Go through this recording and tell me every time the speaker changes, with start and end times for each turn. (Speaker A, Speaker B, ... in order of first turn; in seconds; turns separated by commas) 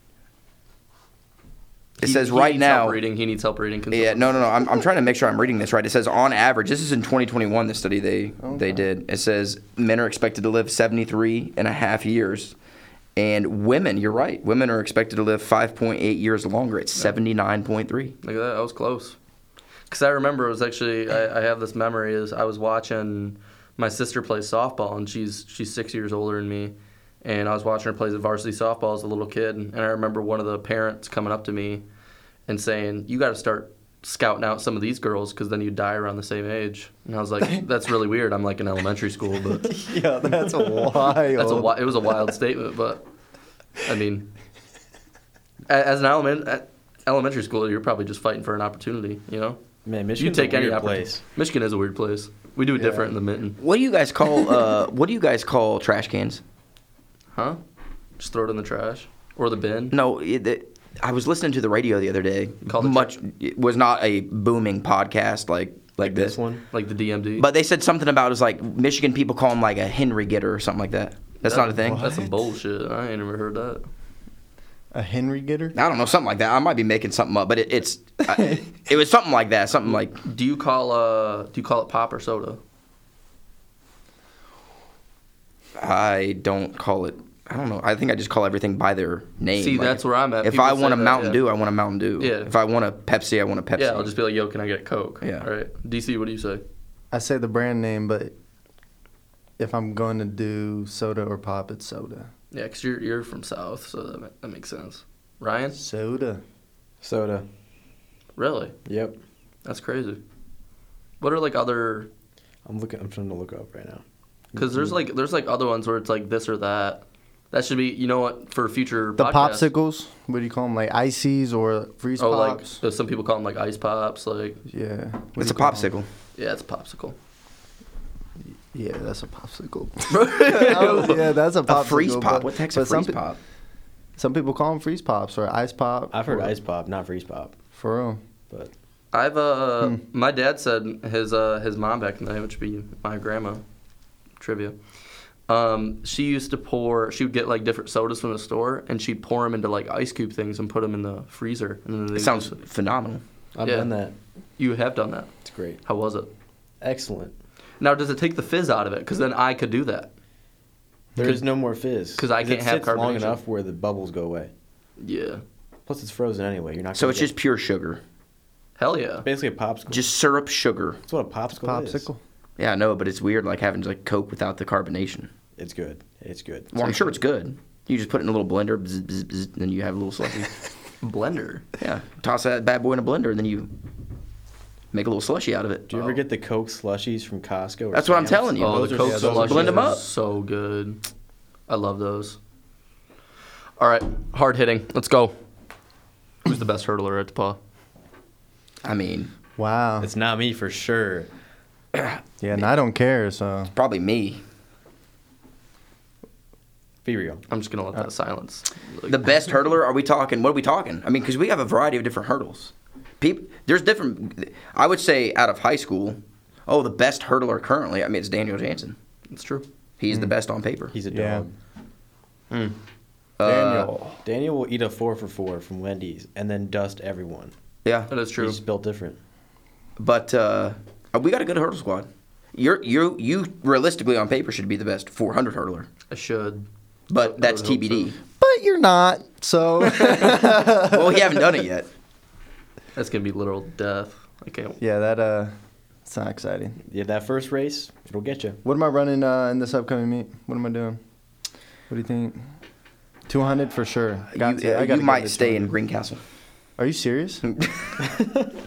Speaker A: 2.0-4.5, Speaker B: 2.0-3.0, Speaker B: 3.9-12.5, Speaker C: 8.4-8.8, Speaker B: 13.2-18.1, Speaker A: 18.2-19.2, Speaker A: 19.9-31.8, Speaker A: 32.5-39.8, Speaker C: 39.6-41.8, Speaker A: 41.3-43.0, Speaker A: 43.8-44.3, Speaker A: 45.7-49.6, Speaker D: 49.8-51.2, Speaker A: 50.2-53.6, Speaker B: 53.6-56.4, Speaker A: 57.3-57.6, Speaker A: 58.2-59.9, Speaker B: 59.9-66.4, Speaker A: 62.6-63.2, Speaker D: 66.0-66.6, Speaker A: 66.7-67.5, Speaker B: 67.4-72.1, Speaker A: 71.4-73.8, Speaker C: 71.7-72.4, Speaker C: 74.9-75.8, Speaker B: 75.7-80.2, Speaker A: 80.2-82.6, Speaker B: 85.8-94.1, Speaker A: 89.5-91.4, Speaker A: 92.2-92.5, Speaker A: 93.8-96.6, Speaker B: 95.2-95.5, Speaker C: 97.1-98.3, Speaker C: 99.6-102.3, Speaker A: 102.5-105.8, Speaker C: 105.7-106.4, Speaker D: 107.0-107.5, Speaker A: 108.4-108.7, Speaker D: 108.8-109.2, Speaker A: 109.6-110.2, Speaker A: 111.2-112.1, Speaker D: 112.6-114.0, Speaker D: 114.5-115.0, Speaker A: 114.5-119.7, Speaker C: 119.2-122.8, Speaker A: 122.2-124.6, Speaker C: 124.7-125.9, Speaker B: 125.4-126.1, Speaker A: 126.3-127.2, Speaker C: 128.7-133.2, Speaker A: 130.1-131.3, Speaker B: 131.7-133.4, Speaker C: 134.2-136.6, Speaker D: 136.1-137.6, Speaker C: 137.7-138.2, Speaker A: 139.1-143.6, Speaker A: 144.4-144.8, Speaker A: 145.5-152.6, Speaker B: 152.1-153.2, Speaker D: 153.5-154.1, Speaker A: 153.6-153.9, Speaker A: 154.6-155.3, Speaker D: 155.4-155.8, Speaker A: 155.8-156.3, Speaker D: 156.8-157.3, Speaker A: 157.8-160.1, Speaker C: 161.1-161.4, Speaker D: 161.2-164.5, Speaker A: 162.2-163.4, Speaker A: 165.0-165.4, Speaker D: 165.8-167.3, Speaker B: 166.9-168.0, Speaker A: 168.8-169.2, Speaker D: 169.2-170.1, Speaker B: 169.9-171.0, Speaker D: 171.1-172.1, Speaker C: 171.5-172.2, Speaker B: 172.6-175.3, Speaker D: 175.6-177.2, Speaker B: 176.7-180.5, Speaker A: 181.0-181.6, Speaker B: 181.8-183.7, Speaker B: 184.9-185.9, Speaker D: 185.9-190.0, Speaker B: 187.9-190.0, Speaker A: 188.6-191.0, Speaker C: 188.9-189.7, Speaker A: 191.7-192.4, Speaker A: 193.8-195.3, Speaker A: 196.4-197.6, Speaker B: 198.8-199.3, Speaker C: 199.6-200.1, Speaker D: 200.0-201.3, Speaker B: 201.9-202.6, Speaker C: 202.4-203.7, Speaker B: 203.8-204.4, Speaker D: 207.0-207.4, Speaker A: 207.5-209.2, Speaker B: 209.1-219.0, Speaker A: 219.3-219.6, Speaker B: 220.0-220.9, Speaker D: 220.9-221.5, Speaker C: 221.1-221.4, Speaker A: 222.5-222.8, Speaker B: 223.4-223.9, Speaker C: 223.4-224.2, Speaker D: 224.2-227.5, Speaker B: 227.8-228.1, Speaker A: 228.1-228.6, Speaker D: 228.3-229.2, Speaker B: 230.0-235.9, Speaker A: 236.1-236.7, Speaker B: 237.1-238.2, Speaker A: 237.2-238.1, Speaker C: 238.4-241.7, Speaker B: 240.0-241.9, Speaker A: 242.9-244.8, Speaker C: 244.8-245.5, Speaker C: 246.1-246.8, Speaker D: 246.9-248.6, Speaker C: 248.6-251.0, Speaker C: 251.9-252.4, Speaker C: 253.3-255.7, Speaker B: 254.3-256.2, Speaker C: 256.8-257.4, Speaker B: 257.4-258.1